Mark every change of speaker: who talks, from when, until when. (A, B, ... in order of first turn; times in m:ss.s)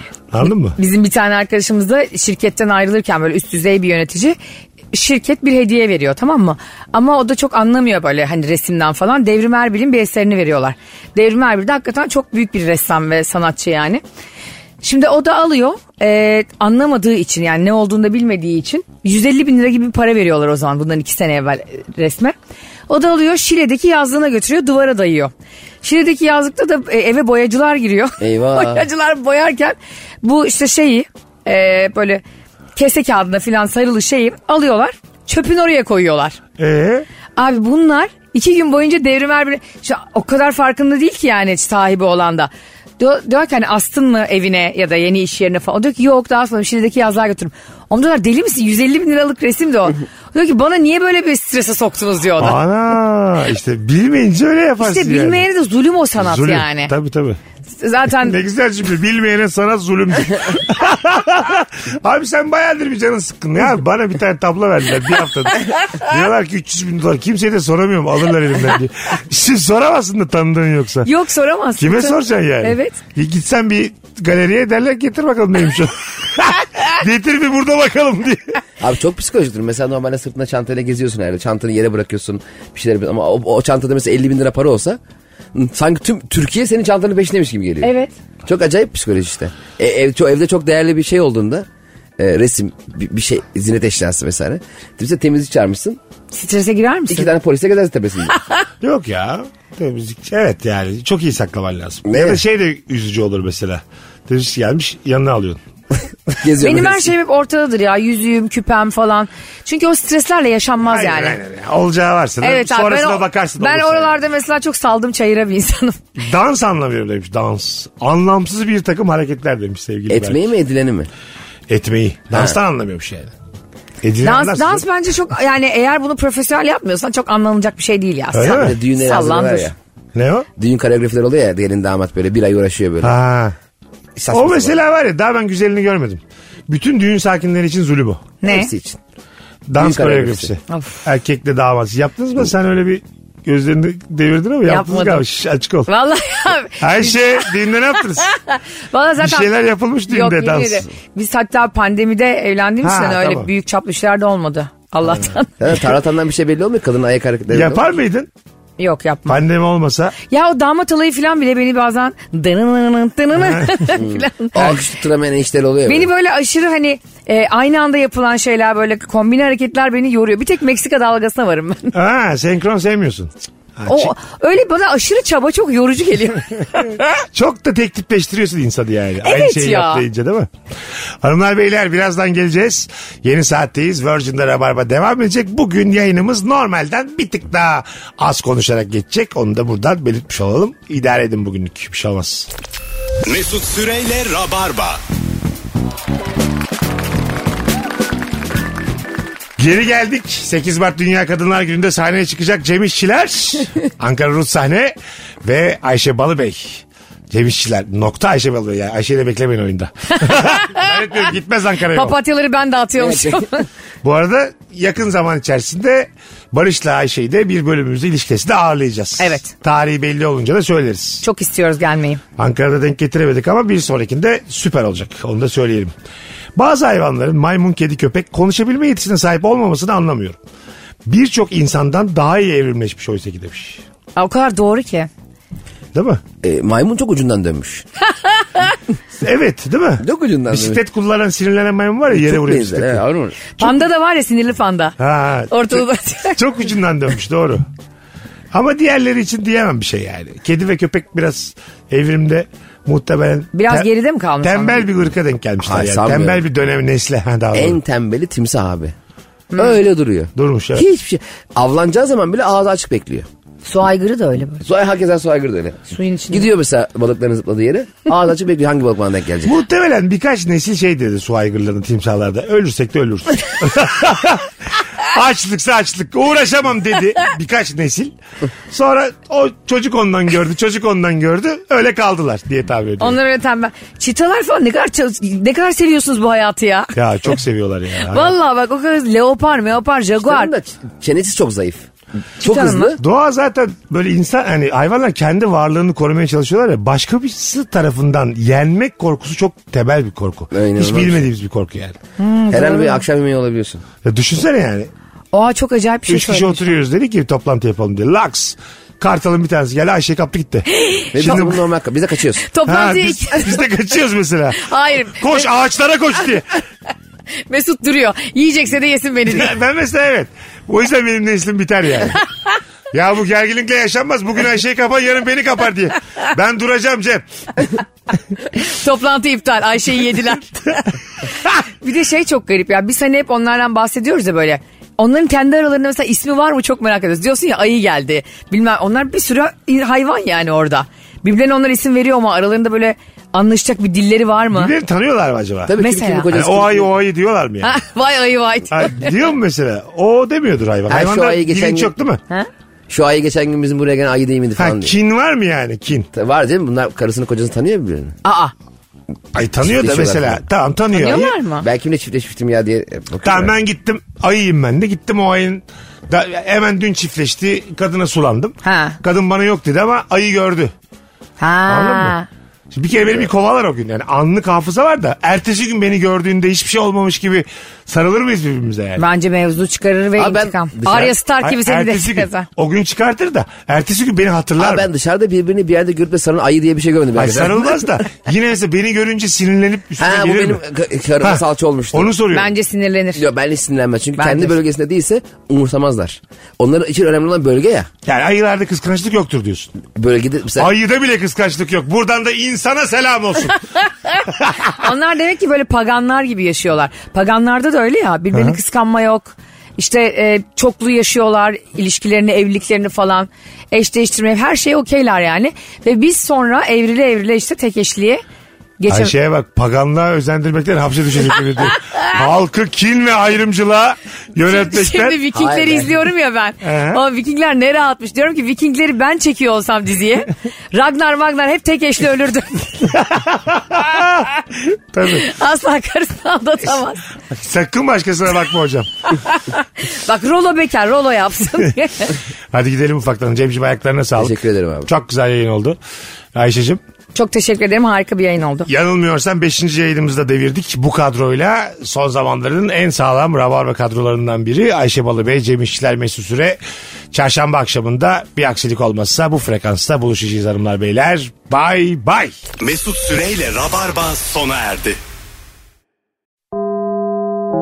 0:00.3-0:00.8 A
0:00.7-0:04.4 B
0:04.9-0:14.0 B
0:14.8-0:22.3 B
0:22.9-0:25.3 B
0:25.8-0:32.2 B
0:28.2-0:28.8 C
0:32.8-0:36.4 B
0:36.6-0:37.1 A
0:37.4-0:52.6 B
0:52.4-0:55.4 A
0:54.8-0:56.9 B
0:56.2-0:57.4 A
0:57.8-0:58.4 B
0:58.1-1:11.1 A
1:11.0-1:13.0 B
1:11.8-1:18.6 A
1:18.8-1:25.0 C
1:25.5-1:27.9 C
1:27.8-1:28.1 B
1:28.4-1:31.6 C
1:32.2-1:36.0 C
1:36.3-1:37.3 B
1:37.1-1:38.4 C
1:38.8-1:45.6 A
1:42.0-1:42.4 C
1:46.4-1:47.1 C
1:46.6-1:51.4 B
1:50.8-1:54.2 A
1:52.4-1:56.0 B
1:56.2-2:00.5 A
2:00.1-2:01.1 C
2:01.7-2:03.3 A
2:04.0-2:04.8 A
2:04.2-2:09.7 B
2:08.3-2:08.7 A
2:08.4-2:09.7 C
2:10.1-2:10.5 A
2:10.6-2:13.2 C
2:13.0-2:13.5 A
2:14.2-2:14.8 C
2:14.3-2:18.3 A
2:18.4-2:18.7 B
2:18.4-2:19.0 C
2:19.7-2:25.9 A
2:19.8-2:20.5 C
2:20.7-2:21.0 B
2:24.6-2:25.2 B
2:25.9-2:27.5 B
2:26.8-2:28.3 A
2:28.3-2:29.5 B
2:29.2-2:30.8 A
2:30.1-2:35.7 B
2:32.8-2:33.5 A
2:35.6-2:37.8 C
2:37.5-2:38.3 A
2:38.8-2:39.4 B
2:39.3-2:40.2 A
2:40.3-2:44.7 B
2:43.4-2:43.8 A
2:43.9-2:46.1 C
2:45.8-2:51.9 B
2:51.9-2:54.1 A
2:53.8-2:57.1 B
2:57.1-3:00.5 A
2:59.2-3:00.0 B
3:01.2-3:12.5 A
3:13.2-3:15.0 D
3:19.6-3:32.2 A
3:30.2-3:31.1 B
3:31.9-3:33.6 B
3:33.0-3:33.4 C
3:34.0-3:41.2 A
3:39.2-3:39.5 B
3:41.2-3:42.2 B
3:42.4-3:45.9 A
3:46.6-3:50.4 A
3:51.0-3:53.8 A
3:54.2-3:55.1 B
3:55.9-3:56.2 A
3:56.4-3:57.8 C
3:58.2-3:58.7 B
3:59.2-4:03.0 A
4:00.0-4:00.8 C
4:02.2-4:03.7 C
4:03.6-4:05.0 B
4:05.0-4:05.8 A
4:05.5-4:06.4 B
4:06.4-4:07.6 A
4:08.5-4:13.9 A
4:13.5-4:14.8 B
4:14.4-4:17.8 A
4:15.6-4:16.4 C
4:17.5-4:18.9 C
4:19.5-4:19.8 B
4:19.6-4:23.2 C
4:20.3-4:20.8 A
4:23.6-4:24.6 B
4:24.6-4:29.6 C
4:25.9-4:26.5 B
4:29.4-4:38.1 A
4:38.7-4:43.2 A
4:43.0-4:46.9 B
4:46.9-4:48.3 A
4:48.0-4:50.5 B
4:50.2-4:51.8 C
4:52.4-4:53.0 B
4:52.4-4:53.0 C
4:53.0-5:02.0 A
5:00.5-5:01.2 C
5:02.2-5:03.0 B
5:02.5-5:03.8 C
5:04.0-5:04.9 A
5:05.3-5:06.7 B
5:06.1-5:10.7 A
5:10.7-5:11.6 B
5:11.1-5:12.5 C
5:11.2-5:11.6 A
5:12.4-5:13.6 B
5:12.6-5:16.5 A
5:14.6-5:15.4 B
5:17.5-5:19.5 B
5:19.3-5:22.2 A
5:22.9-5:27.2 A
5:28.5-5:30.9 B
5:31.8-5:44.7 B
5:44.5-5:45.8 A
5:45.6-5:46.9 C
5:45.8-5:46.3 B
5:46.3-5:47.8 A
5:47.6-5:49.0 B
5:48.7-5:52.2 A
5:50.9-5:51.9 C
5:52.9-5:54.9 C
5:54.6-5:56.1 A
5:56.1-5:58.2 C
5:58.2-5:58.5 B
5:59.3-6:01.4 A
5:59.6-6:00.4 C
6:00.9-6:01.7 B
6:01.6-6:03.5 C
6:03.2-6:10.7 A
6:08.6-6:09.0 B
6:11.4-6:12.3 B
6:11.7-6:12.2 A
6:12.7-6:19.0 A
6:19.0-6:22.5 B
6:20.2-6:21.1 C
6:21.4-6:24.9 A
6:24.6-6:27.7 C
6:27.2-6:30.6 A
6:30.0-6:32.1 C
6:31.2-6:32.5 A
6:32.3-6:33.2 B
6:33.1-6:37.9 C
6:34.2-6:34.5 B
6:38.0-6:39.7 A
6:39.9-6:40.7 C
6:40.6-6:43.6 A
6:44.3-6:44.8 A
6:44.8-6:58.2 B
6:48.3-6:48.6 A
6:58.8-6:59.1 B
6:58.9-7:05.2 A
7:04.4-7:13.0 B
7:05.3-7:05.9 C
7:06.6-7:07.0 A
7:12.8-7:15.3 A
7:15.0-7:17.0 B
7:17.3-7:18.9 A
7:19.8-7:22.2 B
7:22.5-7:25.8 A
7:24.2-7:24.9 C
7:26.3-7:26.8 A
7:27.1-7:28.7 B
7:28.6-7:36.6 A
7:37.1-7:42.4 A
7:42.6-7:45.0 D